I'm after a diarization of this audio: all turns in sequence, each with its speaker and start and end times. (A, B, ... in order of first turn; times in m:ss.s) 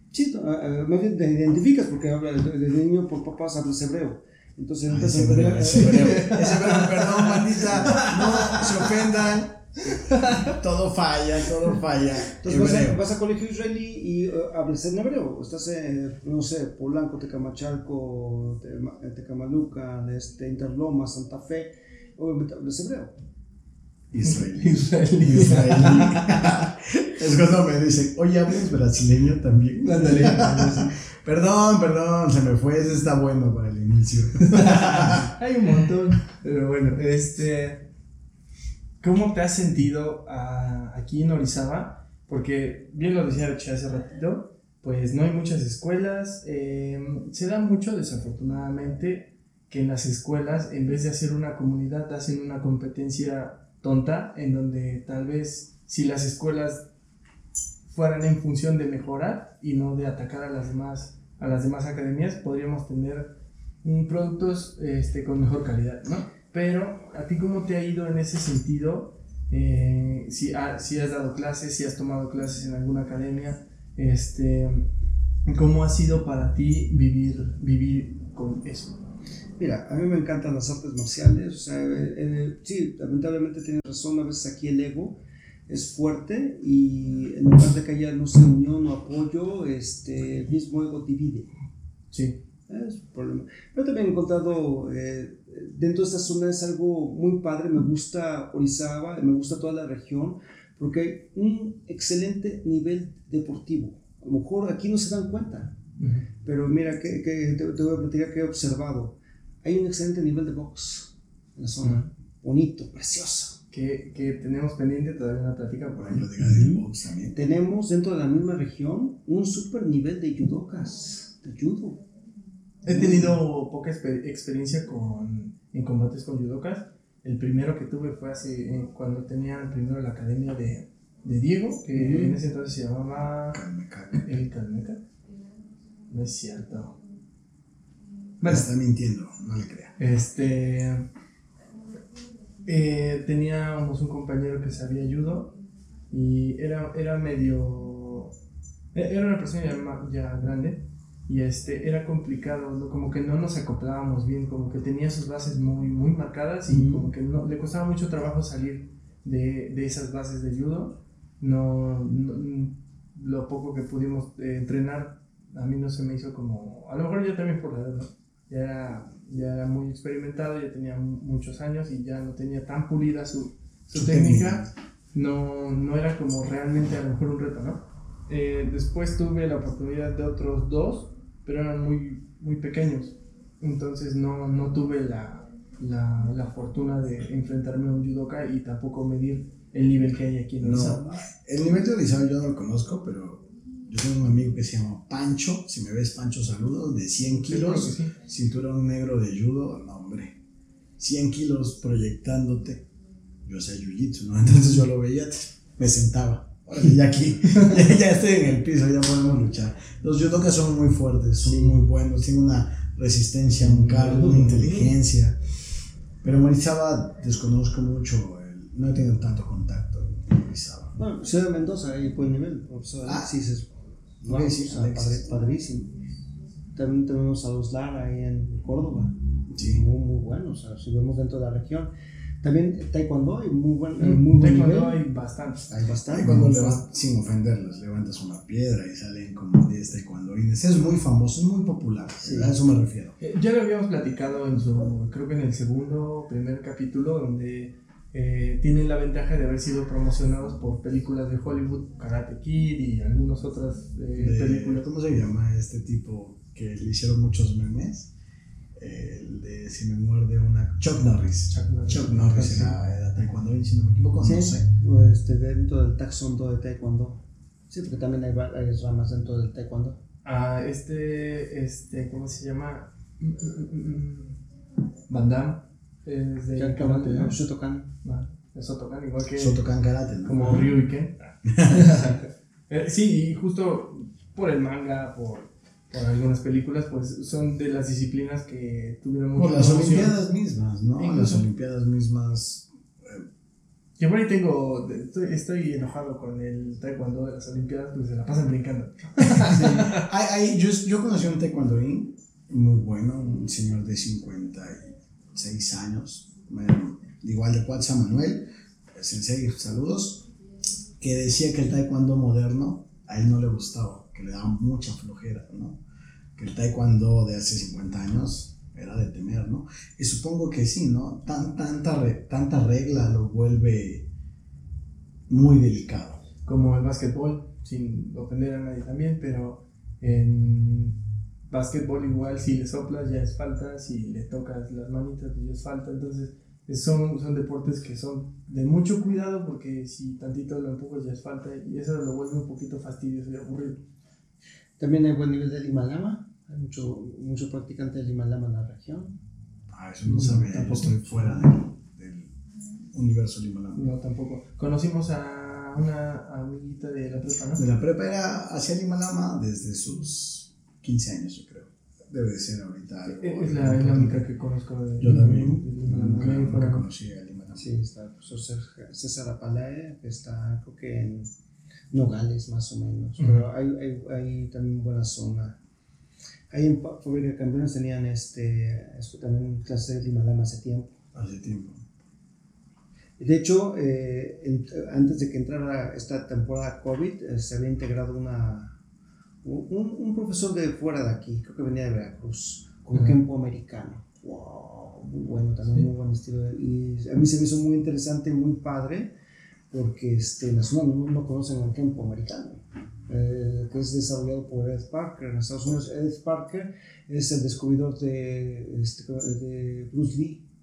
0:00.1-0:06.6 A
0:04.9-0:09.8 B
0:06.0-0:08.6 C
0:07.6-0:09.0 A
0:10.1-0:10.6 C
0:10.4-0:13.0 B
0:12.3-0:23.1 A
0:24.1-0:35.3 B
0:24.2-0:26.6 C
0:29.8-0:30.9 C
0:34.4-0:37.9 C
0:39.0-0:56.8 C
0:57.9-1:14.9 C
1:15.5-1:19.0 C
1:19.6-1:31.5 A
1:32.1-1:32.4 C
1:32.7-1:45.7 A
1:46.0-1:46.3 C
1:46.4-1:53.6 A
1:51.8-1:52.1 C
1:53.7-1:56.3 C
1:56.0-1:57.4 B
1:56.4-2:02.0 A
2:02.8-2:13.6 C
2:02.9-2:03.4 A
2:11.9-2:12.4 A
2:13.5-2:14.2 B
2:14.1-2:15.0 C
2:16.1-2:17.0 C
2:18.4-2:18.7 C
2:18.4-2:19.9 B
2:20.0-2:21.1 C
2:22.6-2:25.5 C
2:26.1-2:28.3 C
2:28.9-3:11.2 C
2:36.7-2:37.1 A
2:53.9-2:54.7 B
3:10.6-3:20.4 B
3:17.5-3:18.1 C
3:21.0-3:22.8 B
3:23.4-3:35.4 B
3:31.4-3:31.8 A
3:33.6-3:34.7 C
3:34.1-3:34.9 A
3:36.2-3:41.0 B
3:41.0-3:43.7 A
3:43.0-3:43.3 B
3:44.2-3:46.0 A
3:44.2-3:45.3 B
3:46.7-3:51.9 A
3:49.5-3:49.8 B
3:52.4-3:55.0 A
3:54.0-3:56.8 C
3:55.7-3:56.5 A
3:56.1-4:03.1 B
4:02.2-4:02.6 A
4:03.2-4:14.8 C
4:14.2-4:18.1 B
4:18.8-4:24.6 B
4:21.5-4:22.5 C
4:22.1-4:22.7 A
4:24.2-4:30.0 A
4:30.2-4:34.4 C
4:35.1-4:37.4 C
4:36.6-4:37.9 A
4:38.0-4:39.6 C
4:39.4-4:40.6 B
4:40.2-4:50.2 C
4:40.4-4:40.7 A
4:41.4-4:42.1 B
4:49.3-4:53.2 B
4:51.0-4:51.4 C
4:54.0-5:00.1 C
4:59.3-5:10.2 B
5:11.0-5:15.8 B
5:16.4-5:24.1 B
5:25.3-5:26.2 B
5:26.4-5:31.0 C
5:31.5-5:43.8 C
5:44.8-5:49.2 A
5:49.7-5:52.3 B
5:50.0-5:51.5 C
5:52.9-5:53.8 B
5:53.7-5:57.6 C
5:57.6-6:04.2 B
6:03.0-6:06.8 C
6:05.0-6:07.6 B
6:05.1-6:05.6 A
6:07.5-6:11.3 A
6:11.9-6:15.6 A
6:13.2-6:13.4 C
6:16.5-6:21.0 A
6:21.1-6:21.8 B
6:23.2-6:28.7 A
6:29.4-6:39.1 A
6:32.9-6:33.2 C
6:39.7-6:50.4 A